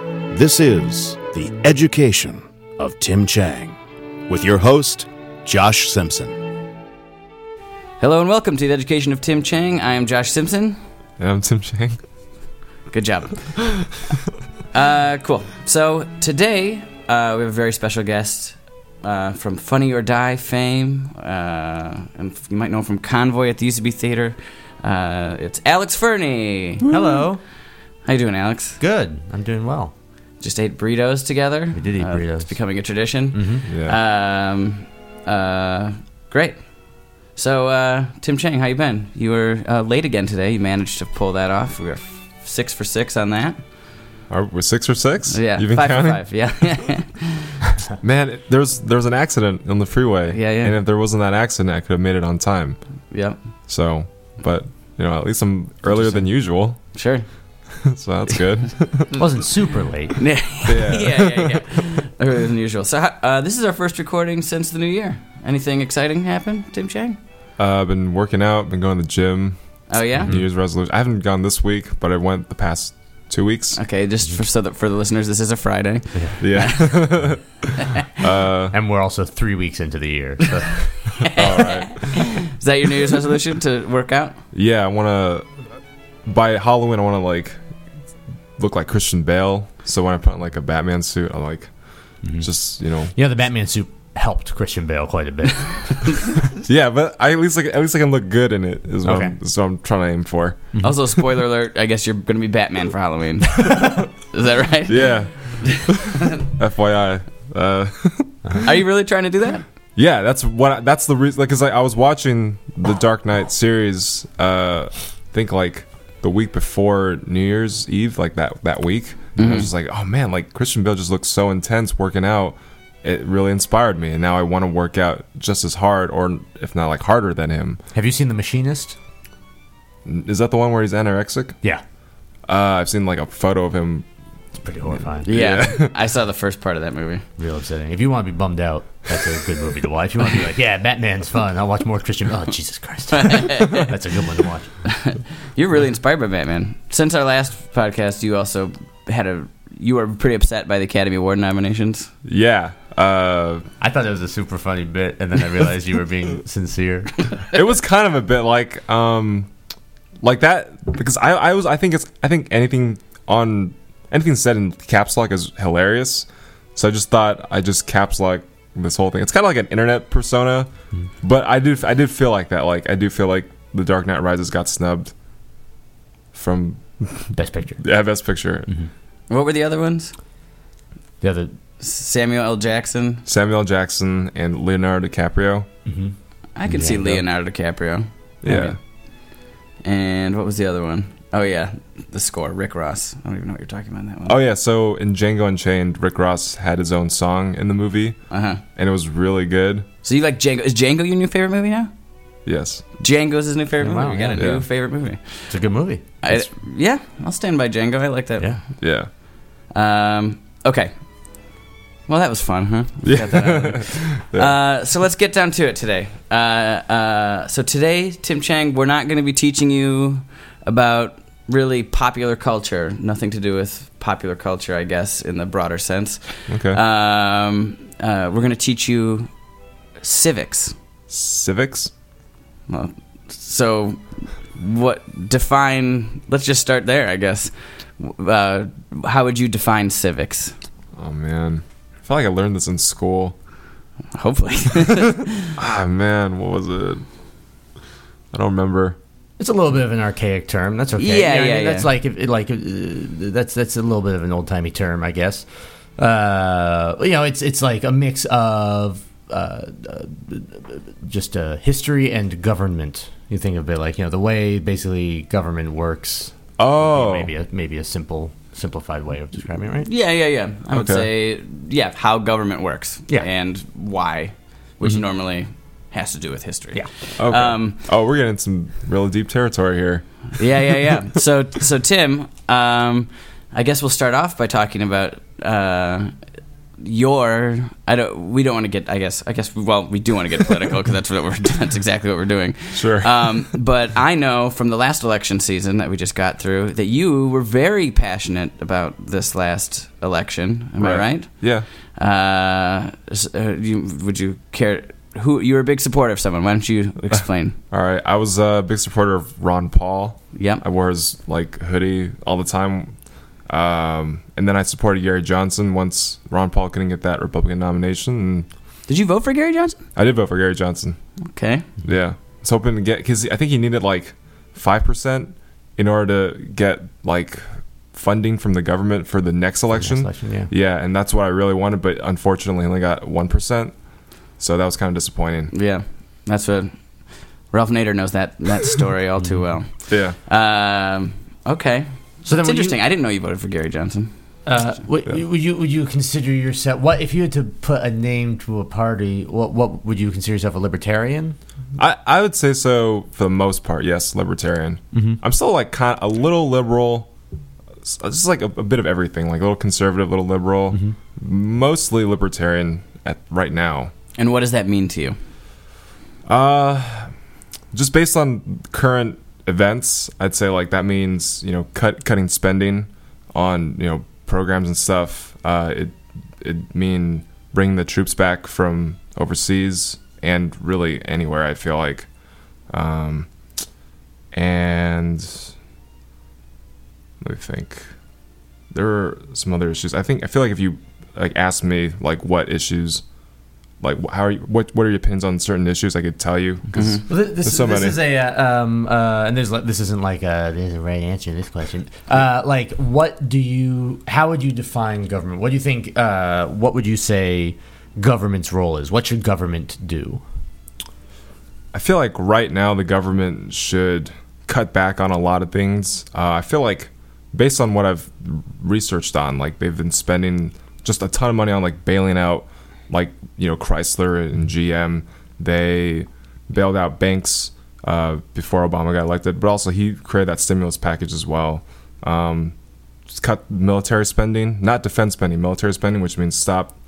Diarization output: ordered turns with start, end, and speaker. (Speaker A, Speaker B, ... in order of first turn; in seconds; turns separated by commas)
Speaker A: 0.3-3.8, Speaker A: 4.3-6.4, Speaker B: 8.0-10.8, Speaker C: 11.2-12.0, Speaker B: 12.9-13.9, Speaker B: 14.7-26.8, Speaker D: 26.8-27.4, Speaker B: 28.1-28.8, Speaker D: 28.8-29.9, Speaker B: 30.4-43.6, Speaker D: 31.7-32.5, Speaker D: 33.3-33.6, Speaker C: 33.7-34.0, Speaker C: 44.3-46.5, Speaker B: 45.3-47.6, Speaker C: 48.0-52.8, Speaker B: 50.3-50.8, Speaker B: 53.1-53.4, Speaker C: 53.7-57.0, Speaker D: 55.9-56.2, Speaker B: 56.9-57.2, Speaker C: 57.8-59.1, Speaker D: 59.2-60.2, Speaker B: 60.1-67.2, Speaker C: 60.6-61.7, Speaker C: 67.6-73.8, Speaker B: 69.9-70.3, Speaker D: 70.2-70.5, Speaker B: 73.8-77.4, Speaker C: 76.4-78.7, Speaker D: 78.7-81.2, Speaker B: 81.2-84.4, Speaker C: 81.2-82.2, Speaker C: 84.5-85.5, Speaker C: 86.2-87.6, Speaker C: 88.6-91.7, Speaker C: 92.4-93.1, Speaker D: 93.1-96.2, Speaker C: 96.6-100.7, Speaker D: 99.0-99.3, Speaker B: 100.8-106.4, Speaker C: 104.9-108.6, Speaker B: 108.6-109.6, Speaker C: 110.0-127.8, Speaker B: 119.4-119.7, Speaker D: 127.9-129.0, Speaker C: 130.0-131.6, Speaker C: 132.5-134.1, Speaker D: 134.6-135.3, Speaker C: 135.2-135.9, Speaker B: 135.2-137.2, Speaker D: 137.4-144.7, Speaker B: 143.1-143.9, Speaker B: 144.8-152.1, Speaker C: 152.2-153.7, Speaker D: 153.8-157.3, Speaker C: 157.5-159.5, Speaker C: 160.2-170.7, Speaker C: 171.2-175.1, Speaker C: 176.3-178.7, Speaker D: 177.3-177.8, Speaker B: 179.3-180.1, Speaker D: 181.2-181.5, Speaker B: 181.8-183.2, Speaker C: 183.2-185.7, Speaker D: 185.8-186.1, Speaker B: 186.6-188.8, Speaker D: 186.7-187.2, Speaker C: 188.4-188.8, Speaker B: 189.8-194.4, Speaker C: 194.2-198.2, Speaker B: 198.3-198.6, Speaker C: 198.8-199.8, Speaker B: 200.0-201.9, Speaker C: 202.5-202.8, Speaker B: 203.0-205.5, Speaker D: 203.8-204.5, Speaker C: 204.3-204.7, Speaker D: 205.5-206.4, Speaker B: 206.2-208.5, Speaker C: 208.8-209.1, Speaker B: 209.7-210.9, Speaker B: 212.1-229.3, Speaker C: 213.1-214.5, Speaker C: 226.5-226.8, Speaker B: 230.0-230.8, Speaker C: 231.1-231.9, Speaker B: 232.7-240.6, Speaker C: 240.9-243.3, Speaker B: 244.1-245.6, Speaker C: 245.6-247.1, Speaker C: 248.3-249.0, Speaker D: 249.4-255.4, Speaker B: 251.0-251.9, Speaker D: 256.0-269.9, Speaker C: 266.6-267.3, Speaker B: 269.8-277.8, Speaker C: 270.7-271.1, Speaker C: 277.2-280.9, Speaker B: 280.4-286.1, Speaker B: 286.8-307.6, Speaker C: 292.8-293.4, Speaker C: 300.8-301.6, Speaker C: 307.7-312.9, Speaker B: 310.3-310.6, Speaker C: 313.5-318.5, Speaker B: 318.9-319.8, Speaker C: 319.9-321.0, Speaker B: 321.3-321.7, Speaker C: 321.8-333.7, Speaker D: 329.7-330.5, Speaker C: 334.4-335.5, Speaker B: 335.5-344.1, Speaker D: 339.2-339.4, Speaker C: 339.9-340.1, Speaker D: 342.2-342.8, Speaker D: 344.4-351.4, Speaker C: 351.8-357.1, Speaker D: 354.9-355.2, Speaker C: 357.8-363.9, Speaker B: 364.1-365.2, Speaker C: 366.3-367.1, Speaker C: 367.7-382.1, Speaker C: 382.7-383.3, Speaker C: 384.3-385.5, Speaker C: 387.2-387.9, Speaker C: 388.7-393.0, Speaker C: 393.8-398.0, Speaker B: 396.7-397.0, Speaker D: 397.1-410.2, Speaker C: 411.7-432.6, Speaker C: 433.1-436.7